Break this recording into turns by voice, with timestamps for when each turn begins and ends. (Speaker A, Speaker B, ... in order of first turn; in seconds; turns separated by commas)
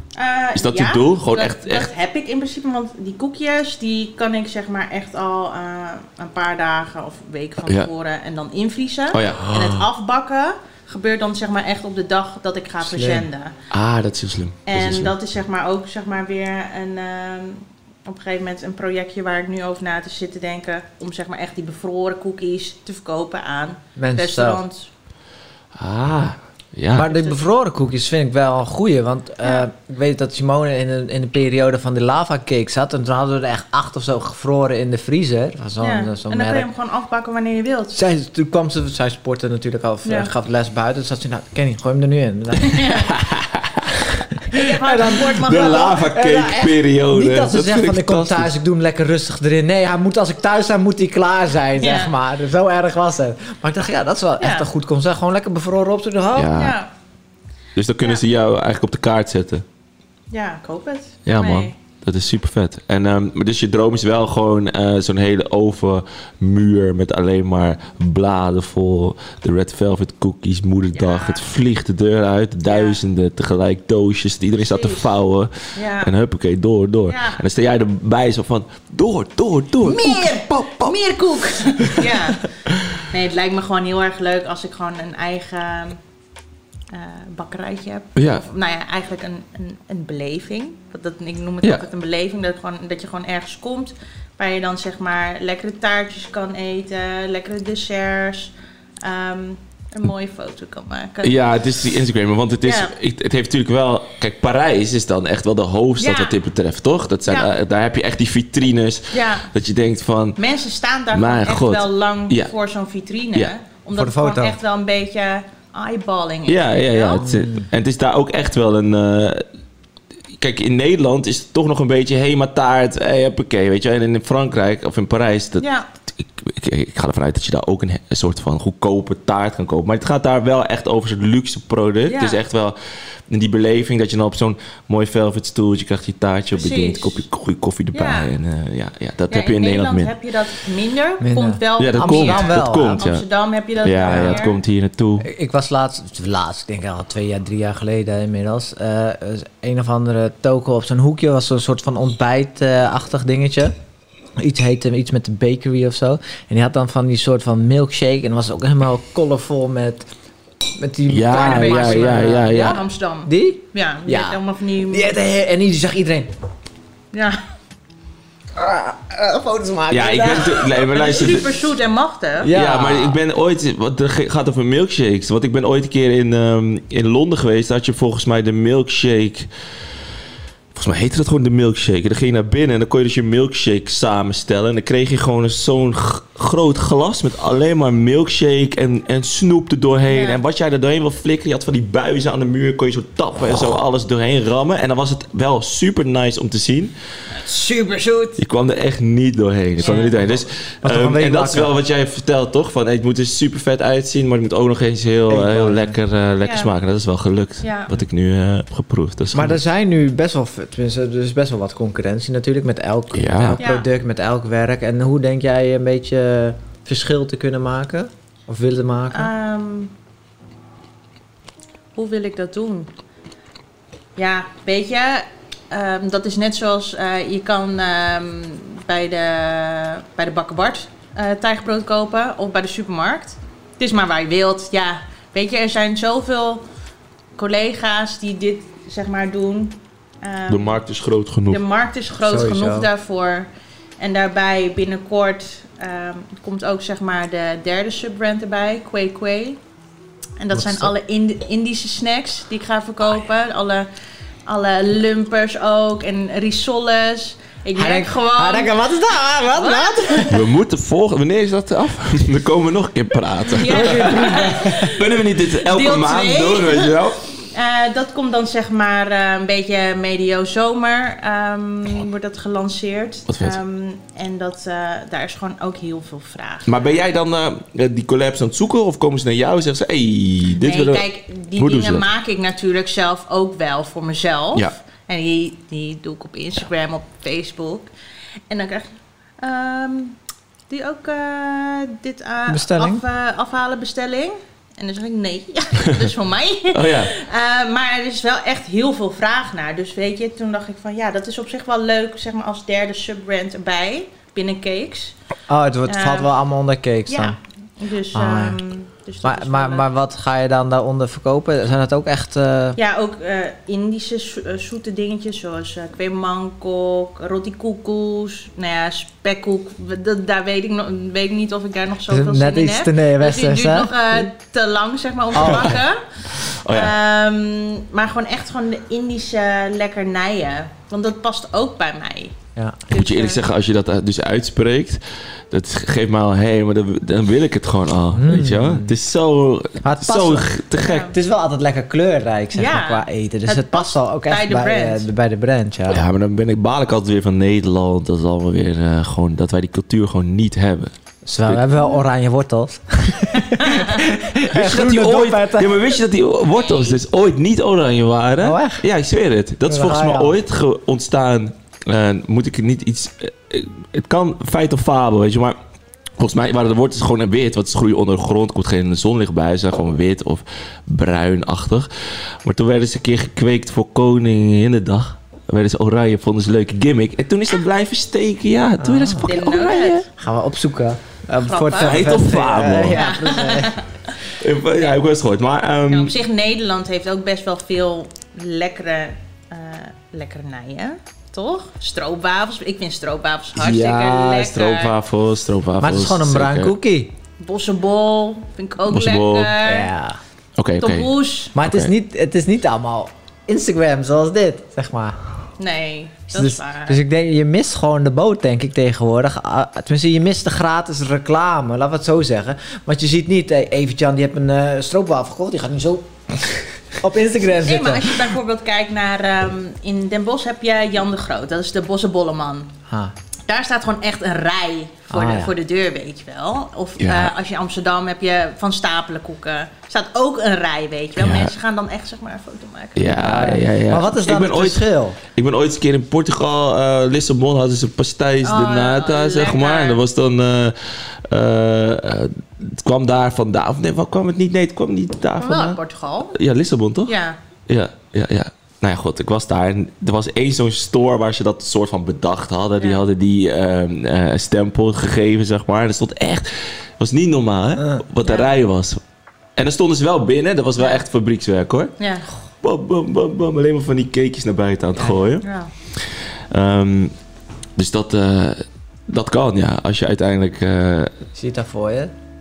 Speaker A: 0.2-13.6, Speaker B: 0.6-1.9, Speaker B: 9.1-9.9, Speaker C: 12.8-13.3, Speaker B: 13.7-15.2, Speaker A: 14.7-24.9, Speaker C: 24.0-24.6, Speaker B: 25.8-27.1, Speaker C: 26.9-36.7, Speaker A: 27.0-27.4, Speaker A: 35.8-38.0, Speaker C: 37.9-43.0, Speaker A: 40.0-40.3, Speaker A: 42.6-43.1, Speaker B: 43.1-43.8, Speaker A: 44.5-46.1, Speaker C: 44.5-56.5, Speaker B: 45.4-48.5, Speaker A: 51.8-52.1, Speaker A: 54.4-54.7, Speaker B: 56.3-56.8, Speaker A: 56.5-56.9, Speaker B: 57.8-59.6, Speaker A: 60.3-61.8, Speaker B: 61.3-81.0, Speaker A: 70.9-71.4, Speaker A: 72.7-73.0, Speaker A: 74.6-75.1, Speaker A: 75.8-76.1, Speaker A: 77.1-77.4, Speaker A: 79.8-82.5, Speaker B: 81.8-83.0, Speaker A: 83.1-86.0, Speaker A: 86.9-101.4, Speaker B: 88.2-88.4, Speaker B: 101.2-110.4, Speaker A: 102.6-103.0, Speaker A: 106.0-106.4, Speaker A: 107.3-107.5, Speaker A: 109.1-109.5, Speaker A: 110.4-117.3, Speaker B: 111.1-112.5, Speaker C: 113.9-114.6, Speaker B: 116.5-119.4, Speaker C: 117.2-117.7, Speaker B: 120.4-132.8, Speaker A: 125.6-125.9, Speaker A: 132.1-132.4, Speaker B: 133.3-140.2, Speaker A: 136.5-137.2, Speaker A: 137.9-138.3, Speaker A: 139.3-144.6, Speaker C: 141.2-143.1, Speaker B: 141.8-143.2, Speaker B: 143.8-145.3, Speaker C: 144.1-144.4, Speaker C: 145.2-153.7, Speaker C: 154.4-160.1, Speaker C: 160.8-166.3, Speaker B: 161.1-162.8, Speaker A: 161.3-165.1, Speaker A: 167.1-167.4, Speaker C: 168.6-170.7, Speaker B: 169.9-171.6, Speaker A: 170.4-172.5, Speaker C: 172.4-173.2, Speaker B: 172.5-179.5, Speaker B: 180.7-196.9, Speaker A: 190.1-190.4, Speaker C: 197.4-198.4, Speaker B: 198.4-209.6, Speaker A: 199.8-200.2, Speaker C: 200.8-201.7, Speaker C: 205.3-206.0, Speaker A: 206.4-206.7, Speaker A: 207.6-207.9, Speaker C: 209.3-219.3, Speaker B: 213.1-213.6, Speaker A: 213.6-213.9, Speaker A: 219.1-219.9, Speaker A: 221.9-222.9, Speaker A: 224.2-236.6, Speaker A: 237.4-240.8, Speaker B: 240.5-241.6, Speaker A: 241.5-249.6, Speaker C: 242.2-242.9, Speaker A: 250.4-253.9, Speaker A: 254.5-258.8, Speaker C: 257.8-260.5, Speaker A: 259.5-260.4, Speaker B: 260.3-267.2, Speaker A: 263.5-276.8, Speaker C: 263.6-264.9, Speaker B: 273.3-273.6, Speaker B: 276.7-281.1, Speaker A: 280.6-287.9, Speaker B: 281.6-282.1, Speaker A: 288.5-290.2, Speaker A: 290.7-305.2, Speaker C: 292.5-293.0, Speaker B: 296.7-297.1, Speaker C: 305.5-307.4, Speaker A: 305.9-306.3, Speaker A: 307.1-309.9, Speaker C: 308.1-308.6, Speaker C: 309.2-312.8, Speaker A: 312.8-332.4, Speaker C: 322.1-323.9, Speaker C: 325.4-325.8, Speaker B: 325.4-325.7, Speaker B: 326.4-326.9, Speaker C: 332.6-332.8, Speaker A: 332.9-333.4, Speaker B: 332.9-341.1, Speaker C: 338.1-338.9, Speaker C: 339.8-346.0, Speaker A: 340.8-341.1, Speaker A: 342.6-345.1, Speaker B: 345.9-350.9, Speaker C: 351.3-355.8, Speaker A: 353.4-354.0, Speaker B: 354.4-365.6, Speaker A: 356.6-357.0, Speaker C: 358.4-358.8, Speaker C: 359.6-360.4, Speaker B: 366.2-371.9, Speaker B: 372.4-380.1, Speaker C: 378.8-379.3, Speaker A: 379.2-380.1, Speaker C: 380.2-383.8, Speaker A: 381.4-382.2, Speaker B: 381.8-383.1, Speaker A: 382.9-384.2, Speaker B: 384.3-386.1, Speaker A: 385.9-394.9, Speaker B: 393.6-396.7, Speaker C: 395.8-397.1, Speaker A: 397.4-399.9, Speaker B: 398.9-399.6, Speaker C: 399.6-400.2, Speaker B: 400.6-401.9, Speaker A: 400.8-401.6, Speaker C: 401.6-405.2, Speaker A: 405.6-407.0, Speaker C: 406.3-418.2, Speaker A: 417.6-422.7, Speaker C: 422.9-423.1, Speaker A: 423.5-433.1, Speaker C: 425.1-425.5, Speaker B: 427.0-427.3, Speaker B: 431.2-431.5, Speaker B: 433.0-445.8, Speaker C: 433.0-435.2, Speaker A: 438.4-440.0, Speaker A: 445.4-446.4, Speaker B: 446.3-447.1, Speaker A: 447.1-447.4, Speaker B: 447.7-459.0, Speaker A: 452.8-453.0, Speaker A: 458.2-458.5, Speaker B: 459.6-461.9, Speaker A: 462.0-462.3, Speaker B: 462.6-467.1, Speaker A: 465.4-465.7, Speaker B: 467.8-471.1, Speaker C: 471.4-472.1